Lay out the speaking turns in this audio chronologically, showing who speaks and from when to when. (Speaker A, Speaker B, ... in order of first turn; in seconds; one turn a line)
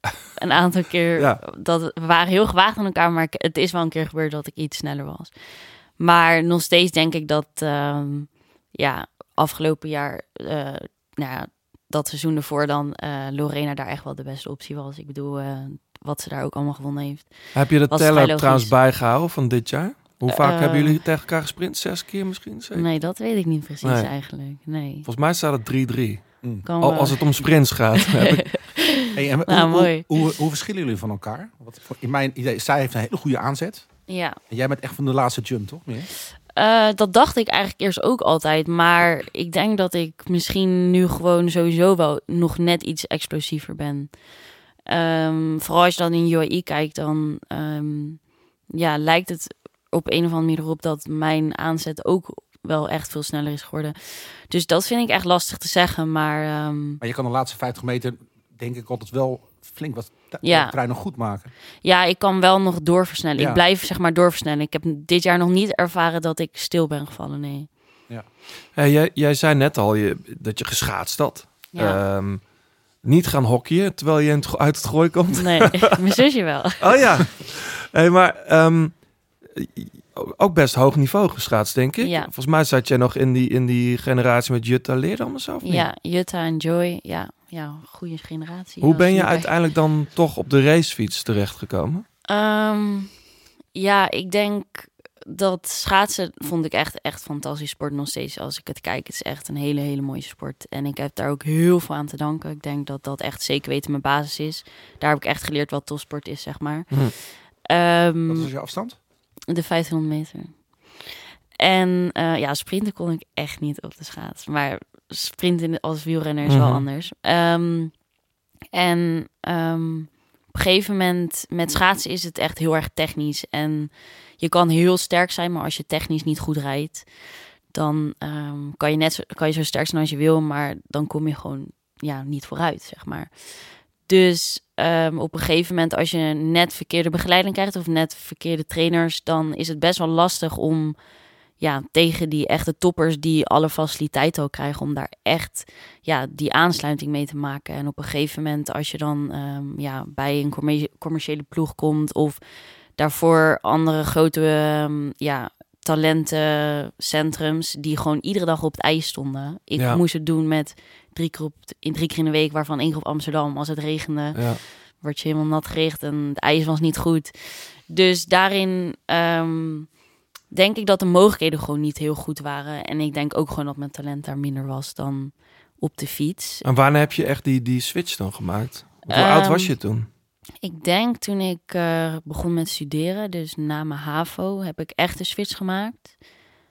Speaker A: 0.3-5.3
Speaker A: 6.0-18.7
Speaker B: 17.5-22.9
Speaker A: 20.3-21.0
Speaker A: 22.7-25.1
Speaker B: 23.8-24.1
Speaker B: 25.1-26.2
Speaker A: 26.6-27.3
Speaker B: 26.8-28.5
Speaker A: 28.4-30.1
Speaker C: 29.1-33.9
Speaker A: 34.1-34.4
Speaker C: 34.5-36.1
Speaker A: 36.6-44.1
Speaker A: 44.9-57.0
Speaker C: 57.0-61.5
Speaker A: 60.4-60.7
Speaker A: 61.8-67.7
Speaker C: 63.4-63.6
Speaker B: 68.8-72.4
Speaker A: 71.7-72.0
Speaker B: 73.0-75.9
Speaker A: 75.4-77.0
Speaker B: 76.8-85.9
Speaker A: 82.0-82.3
Speaker A: 85.6-89.5
Speaker B: 88.8-92.1
Speaker A: 92.3-93.2
Speaker A: 93.7-108.5
Speaker C: 108.3-109.0
Speaker A: 109.5-117.9
Speaker B: 116.5-116.8
Speaker A: 118.7-127.1
Speaker A: 127.7-140.9
Speaker A: 141.6-152.4
Speaker A: 153.0-169.9
Speaker B: 164.3-164.6
Speaker A: 170.5-176.6
Speaker B: 176.6-180.1
Speaker A: 179.1-179.8
Speaker A: 180.6-186.2